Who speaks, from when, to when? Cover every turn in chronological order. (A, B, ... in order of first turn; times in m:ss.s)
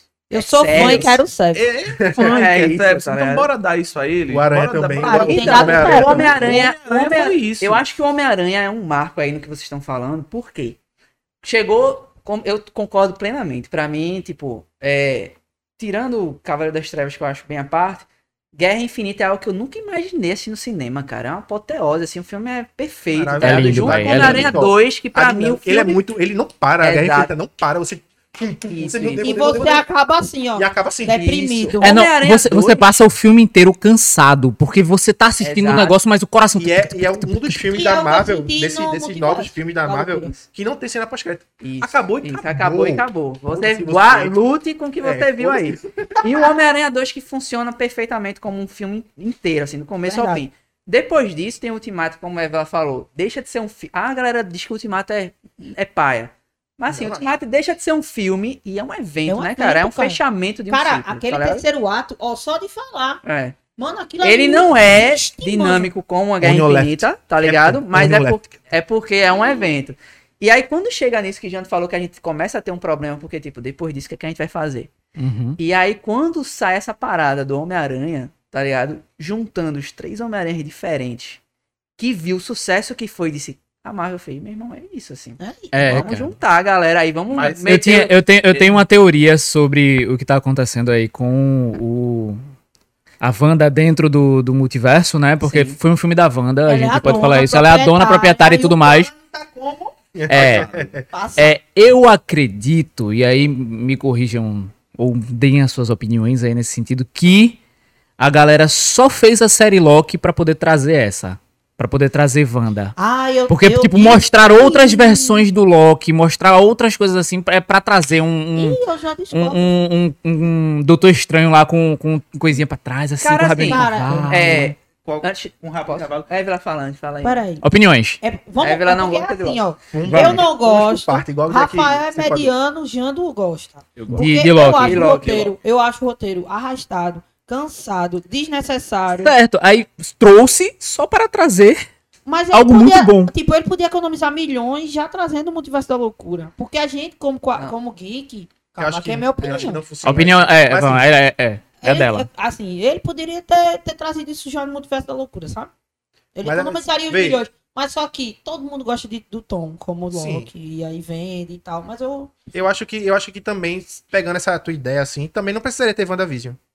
0:00.3-0:01.7 A
0:00.3-0:01.2 B
0:00.7-0:07.8 C
0:02.0-0:02.2 D
0:02.2-0:03.5 B
0:04.3-0:06.6 D
0:05.0-0:06.7 A
0:05.0-0:10.8 B
0:11.4-0:26.0 B
0:23.1-0:29.8 D
0:23.4-0:24.6 E
0:26.8-0:27.3 B
0:28.7-0:29.7 B
0:29.2-0:31.9 A
0:30.6-0:31.8 D
0:31.1-0:32.9 B
0:31.8-0:37.7 E
0:35.4-0:36.0 B
0:36.6-0:44.4 D
0:37.7-0:40.4 A
0:41.6-1:01.6 B
0:45.0-0:46.4 D
0:50.0-0:50.4 A
0:56.9-0:57.2 D
0:59.3-1:03.2 A
1:03.2-1:03.6 B
1:03.8-1:05.9 A
1:04.2-1:14.9 B
1:06.4-1:08.5 D
1:15.2-1:15.6 E
1:15.6-1:21.4 B
1:22.0-1:28.6 B
1:25.4-1:26.0 A
1:25.7-1:26.3 E
1:27.3-1:27.9 C
1:27.6-1:32.4 E
1:33.2-1:39.1 E
1:35.4-1:35.8 B
1:36.6-1:39.1 A
1:39.3-1:41.0 D
1:40.3-1:40.7 E
1:40.3-1:41.0 C
1:41.1-1:41.5 A
1:41.4-1:47.6 E
1:48.2-1:53.0 E
1:53.0-1:55.4 A
1:53.5-1:58.8 E
1:58.6-1:59.6 A
1:59.3-2:04.7 E
2:03.2-2:07.4 B
2:03.6-2:04.4 A
2:05.0-2:06.3 C
2:07.2-2:07.6 A
2:07.6-2:08.2 E
2:08.2-2:19.3 A
2:08.6-2:09.6 B
2:09.9-2:12.5 D
2:10.0-2:10.4 E
2:14.0-2:14.3 C
2:14.1-2:15.2 E
2:14.8-2:15.5 B
2:19.2-2:21.8 E
2:22.2-2:29.8 A
2:22.5-2:23.3 E
2:28.8-2:31.1 D
2:30.0-2:32.3 E
2:31.8-2:35.7 A
2:36.3-2:42.3 A
2:36.4-2:37.4 D
2:40.1-2:40.5 D
2:42.5-2:46.6 D